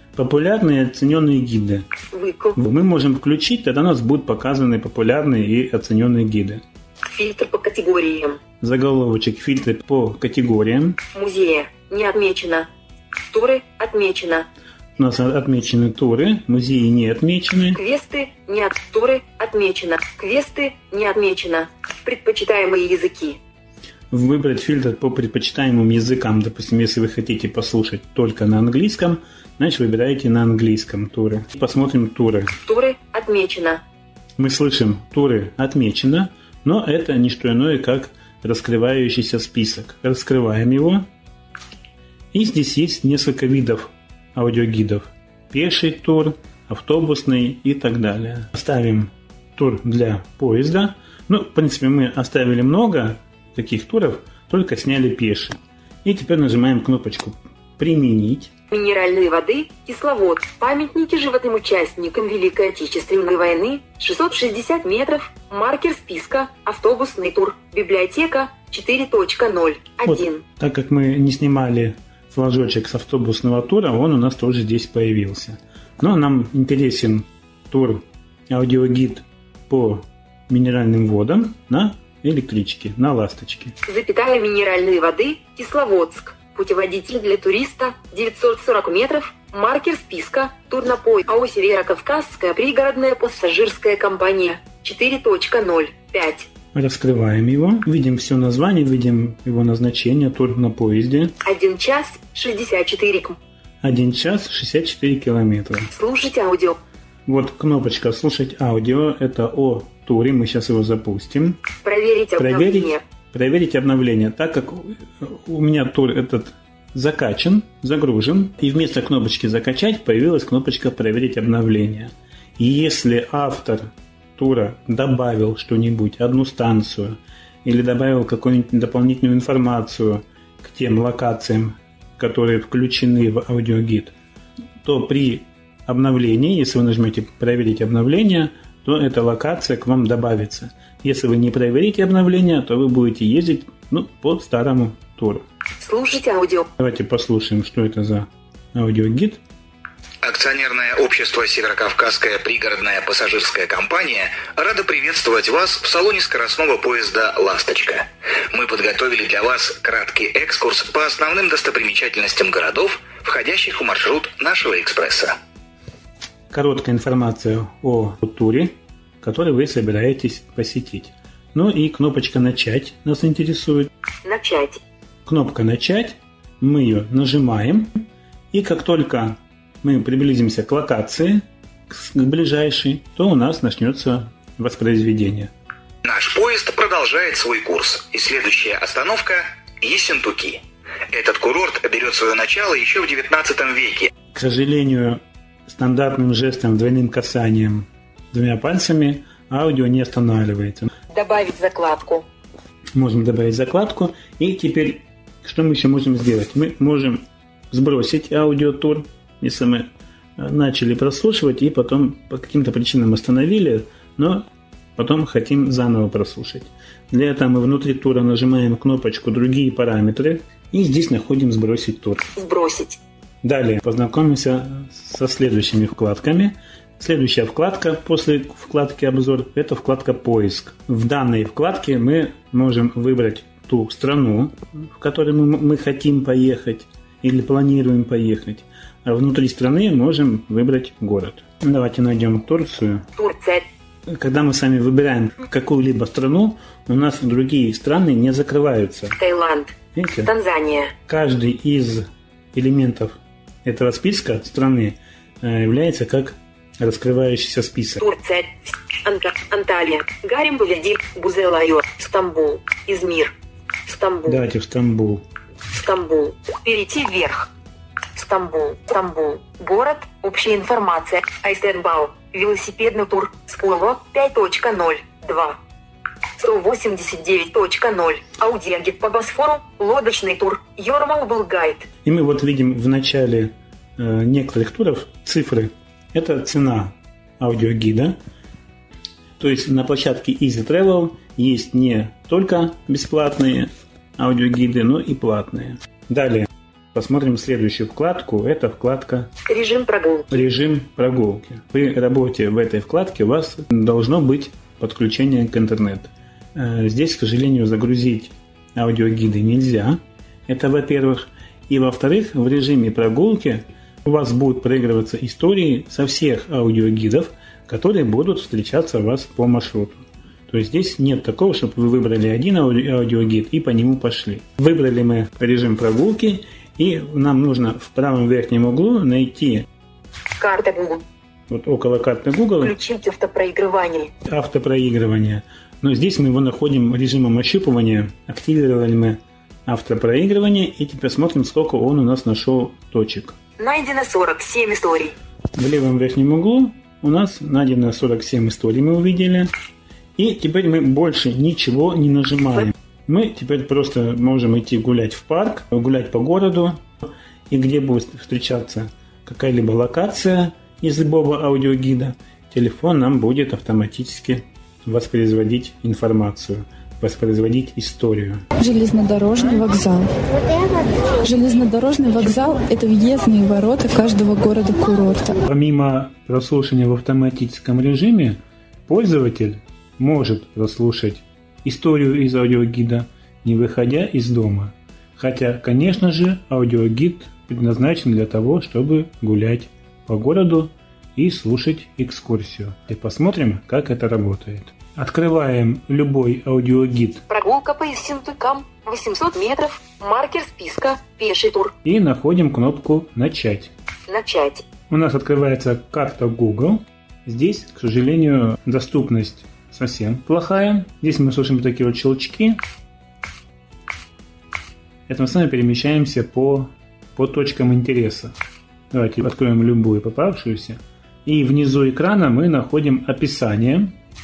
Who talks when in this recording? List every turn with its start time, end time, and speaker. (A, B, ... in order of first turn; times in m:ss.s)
0:00.2-0:01.9 A
0:02.1-0:02.6 B
0:02.6-0:06.6 A
0:07.1-0:08.4 B
0:08.6-0:11.0 A
0:11.1-0:12.7 B
0:13.3-0:14.5 B
0:15.0-0:17.8 A
0:17.7-0:23.4 B
0:24.1-0:32.5 A
0:32.6-0:33.8 B
0:34.4-0:41.1 A
0:42.3-0:58.5 A
0:58.7-1:10.4 B
1:10.1-1:23.7 A
1:23.9-1:36.5 B
1:36.7-1:41.3 A
1:41.4-1:43.4 B
1:43.8-1:45.9 A
1:45.9-1:46.8 B
1:47.3-1:51.6 A
1:51.8-1:53.0 B
1:52.4-2:14.1 A
2:14.8-2:25.4 A
2:25.8-2:26.7 B
2:26.8-2:29.4 A
2:30.2-2:45.4 C
2:46.5-2:53.9 A
2:54.2-2:54.8 B
2:55.3-3:05.5 A
3:06.0-3:14.1 C
3:14.3-3:20.9 A
3:21.1-3:22.3 B
3:23.0-3:29.9 A
3:30.4-3:34.4 A
3:35.0-3:42.3 A
3:42.4-3:43.0 B
3:43.4-4:03.0 A
4:03.2-4:03.7 B
4:04.1-4:09.2 A
4:09.2-4:11.0 B
4:09.9-4:10.3 A
4:11.1-4:18.0 A
4:18.0-4:23.4 B
4:23.9-4:24.4 B
4:24.3-4:25.2 A
4:25.7-4:27.5 B
4:28.2-4:35.6 B
4:36.4-4:41.9 B
4:42.0-4:48.2 A
4:49.4-4:59.3 A
4:59.5-5:00.4 B
5:00.3-5:29.7 A
5:30.4-5:31.0 B
5:31.5-5:32.8 A
5:32.6-5:34.1 B
5:34.3-5:43.4 A
5:43.6-5:45.2 B
5:45.6-5:49.5 A
5:50.2-5:56.9 A
5:57.5-6:08.4 A
6:08.6-6:10.1 D
6:11.2-6:15.4 D
6:15.5-6:37.2 A
6:37.3-6:41.8 B
6:41.8-6:43.7 A
6:44.1-6:44.7 B
6:44.9-6:52.6 A
6:55.1-6:58.4 A
6:58.9-7:04.0 A